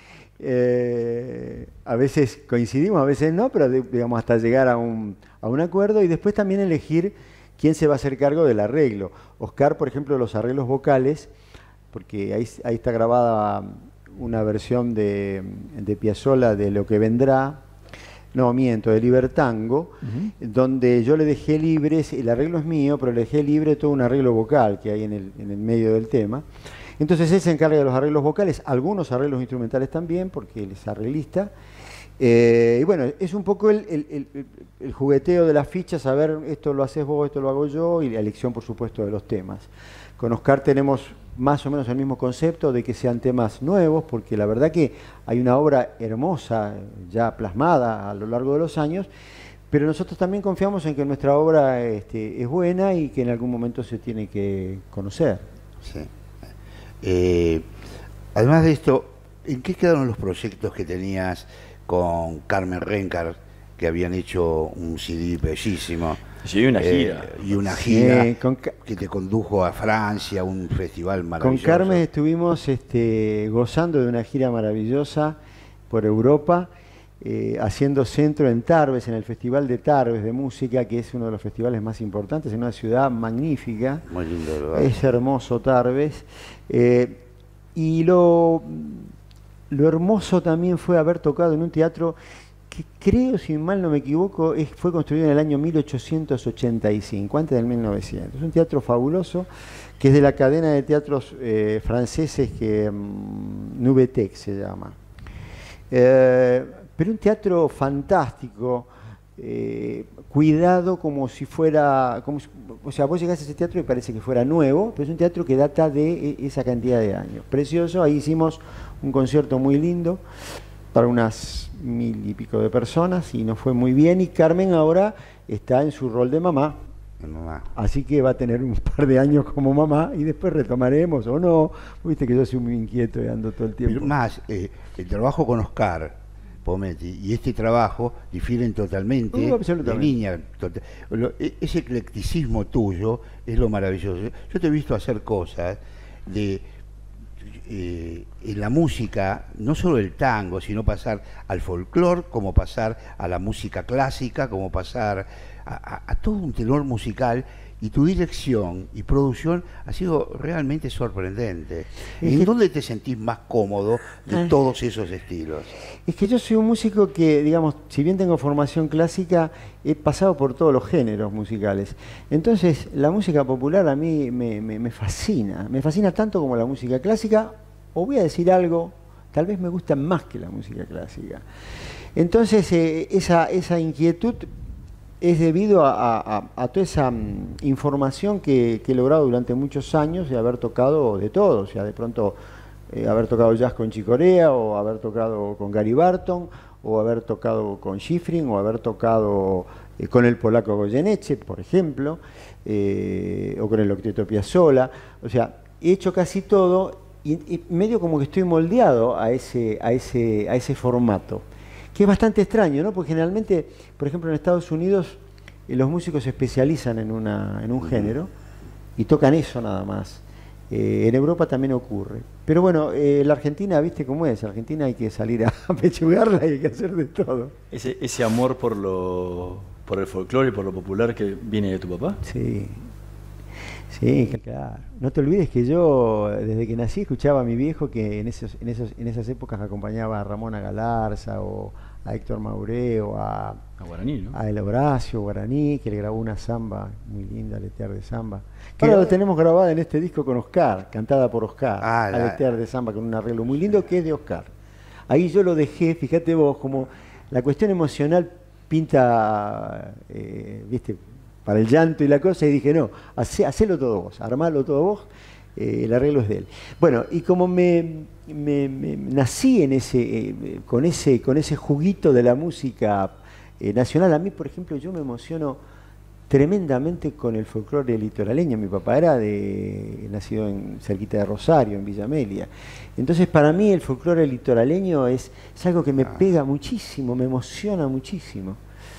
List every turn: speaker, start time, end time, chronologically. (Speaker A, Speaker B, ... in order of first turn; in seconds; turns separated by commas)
Speaker A: 0.4-11.3, Speaker A: 11.9-17.6, Speaker A: 18.3-26.5, Speaker B: 20.0-20.3, Speaker A: 27.0-31.5, Speaker A: 32.2-49.1, Speaker A: 49.7-55.5, Speaker C: 55.8-56.1, Speaker C: 57.0-57.7, Speaker C: 58.3-66.2, Speaker B: 66.4-67.3, Speaker C: 66.8-68.3, Speaker A: 67.7-68.8, Speaker C: 68.8-72.0, Speaker A: 71.4-75.4, Speaker A: 75.9-76.7, Speaker A: 77.2-84.0, Speaker C: 84.1-85.0, Speaker A: 84.7-87.2, Speaker A: 87.8-89.1, Speaker A: 89.7-92.2, Speaker A: 92.7-99.5, Speaker A: 100.0-105.0, Speaker A: 105.9-120.2, Speaker A: 120.9-126.8, Speaker C: 127.2-127.7, Speaker A: 127.8-134.1, Speaker C: 133.9-146.7, Speaker A: 139.3-140.2, Speaker C: 147.4-165.8, Speaker A: 162.2-162.5, Speaker A: 166.1-181.4, Speaker A: 182.2-184.5, Speaker A: 185.2-192.4, Speaker A: 192.9-218.3, Speaker C: 217.8-218.1, Speaker A: 219.0-227.5, Speaker B: 227.7-232.2, Speaker A: 232.2-232.9, Speaker A: 233.9-243.6, Speaker B: 243.8-244.4, Speaker A: 244.3-254.5, Speaker C: 251.8-252.4, Speaker A: 255.1-275.6, Speaker A: 276.3-288.6